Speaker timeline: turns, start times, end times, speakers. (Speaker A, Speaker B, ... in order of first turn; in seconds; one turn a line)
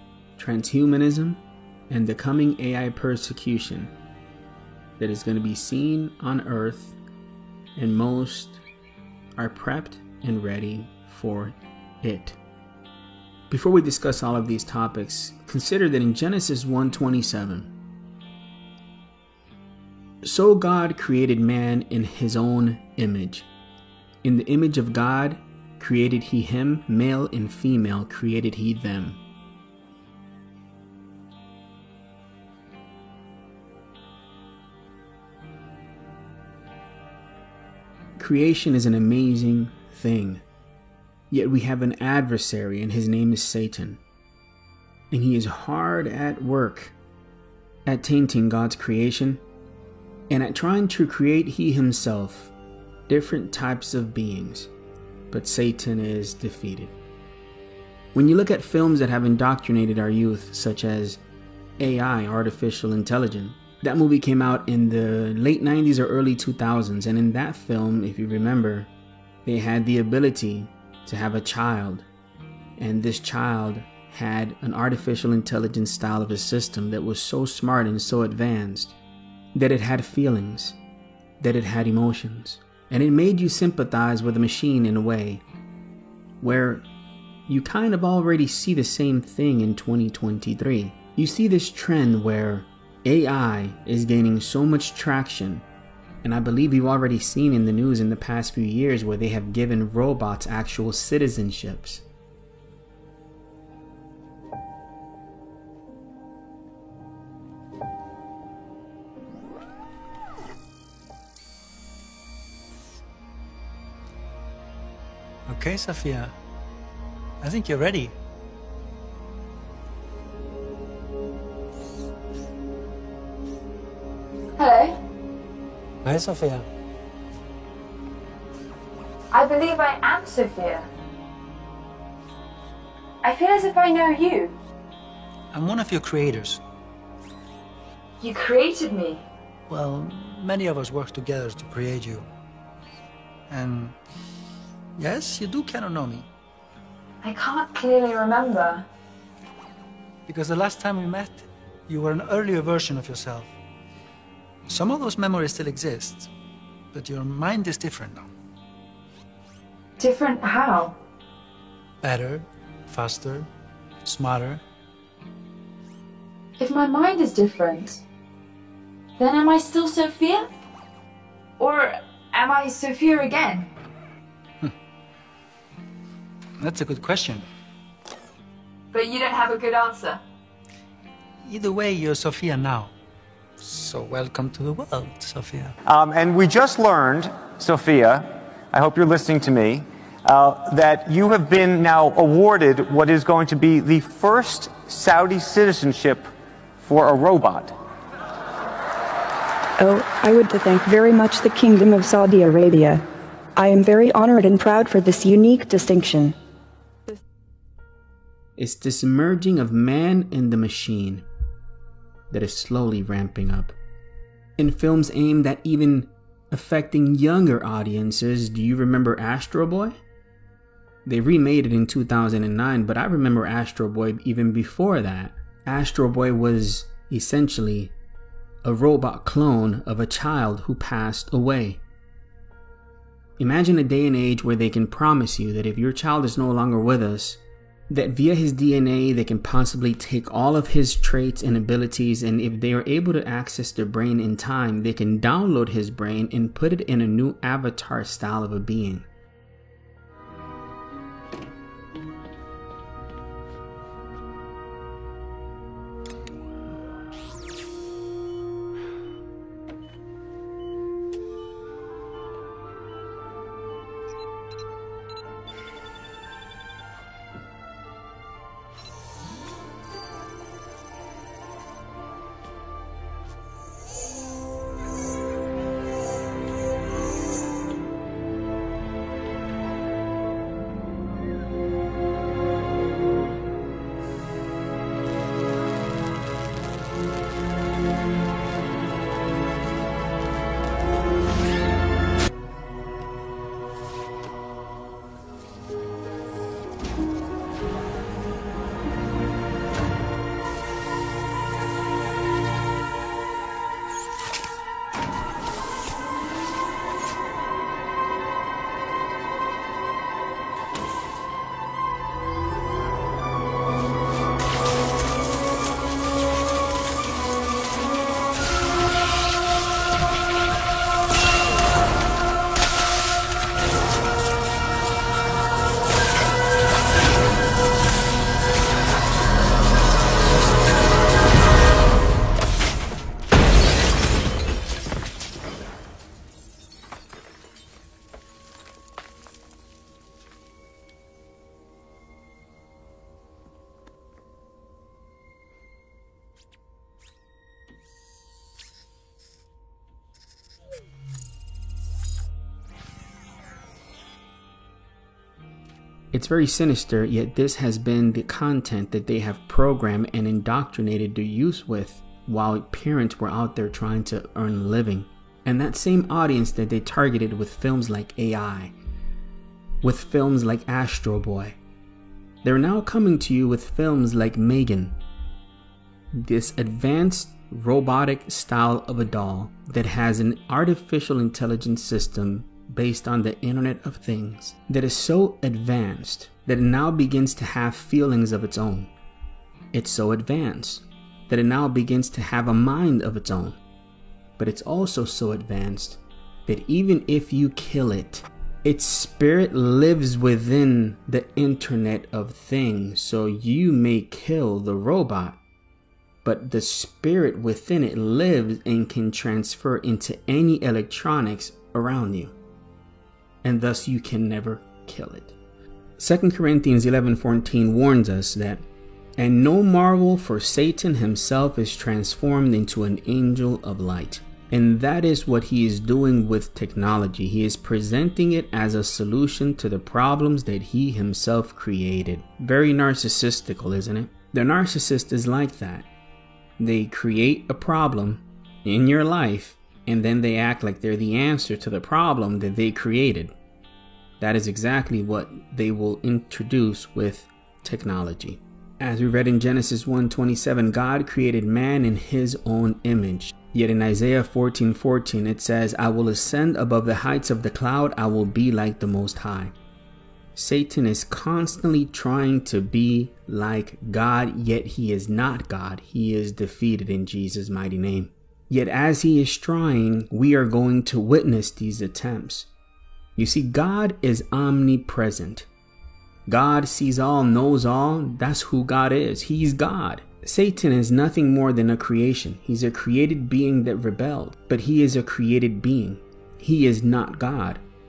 Speaker A: 0.4-3.9
Speaker A: 5.0-7.0
Speaker A: 7.8-8.6
Speaker A: 9.3-12.4
Speaker A: 13.5-17.7
Speaker A: 20.2-23.5
Speaker A: 24.2-29.2
Speaker A: 38.2-40.4
Speaker A: 41.3-44.0
Speaker A: 45.1-46.9
Speaker A: 47.9-49.4
Speaker A: 50.3-52.5
Speaker A: 53.1-54.7
Speaker A: 55.3-56.9
Speaker A: 58.1-61.2
Speaker A: 61.8-68.9
Speaker A: 69.4-72.0
Speaker A: 72.8-78.9
Speaker A: 79.5-80.8
Speaker A: 81.4-85.4
Speaker A: 86.4-86.8
Speaker A: 87.5-95.6
Speaker A: 96.2-102.0
Speaker B: 115.5-116.3
Speaker B: 117.4-118.1
Speaker C: 124.6-124.9
Speaker B: 126.0-126.7
Speaker C: 129.3-130.8
Speaker C: 133.2-134.5
Speaker B: 135.5-136.6
Speaker C: 138.2-139.2
Speaker B: 139.7-142.3
Speaker B: 143.5-143.9
Speaker B: 144.9-146.3
Speaker C: 147.2-148.8
Speaker B: 150.3-153.5
Speaker B: 154.7-156.3
Speaker B: 156.9-158.3
Speaker C: 160.0-160.9
Speaker B: 162.0-163.5
Speaker B: 164.0-164.6
Speaker C: 166.6-168.0
Speaker C: 169.2-170.5
Speaker C: 171.6-173.7
Speaker B: 176.6-177.4
Speaker C: 178.9-180.2
Speaker B: 181.4-182.9
Speaker B: 183.6-185.7
Speaker D: 185.8-196.3
Speaker D: 196.8-197.8
Speaker E: 199.8-203.0
Speaker E: 203.5-206.3
Speaker A: 208.6-211.2
Speaker A: 212.3-213.7
Speaker A: 214.6-220.0
Speaker A: 221.0-227.9
Speaker A: 228.6-231.8
Speaker A: 233.4-249.1
Speaker A: 356.1-368.7
Speaker A: 369.8-371.6
Speaker A: 372.4-375.0
Speaker A: 376.1-388.9
Speaker A: 389.7-393.6
Speaker A: 394.4-405.4
Speaker A: 406.2-412.3
Speaker A: 413.4-415.3
Speaker A: 416.0-418.6
Speaker A: 419.2-435.9
Speaker A: 436.6-443.3
Speaker A: 444.2-459.5
Speaker A: 460.3-472.5
Speaker A: 473.1-475.5
Speaker A: 476.2-487.6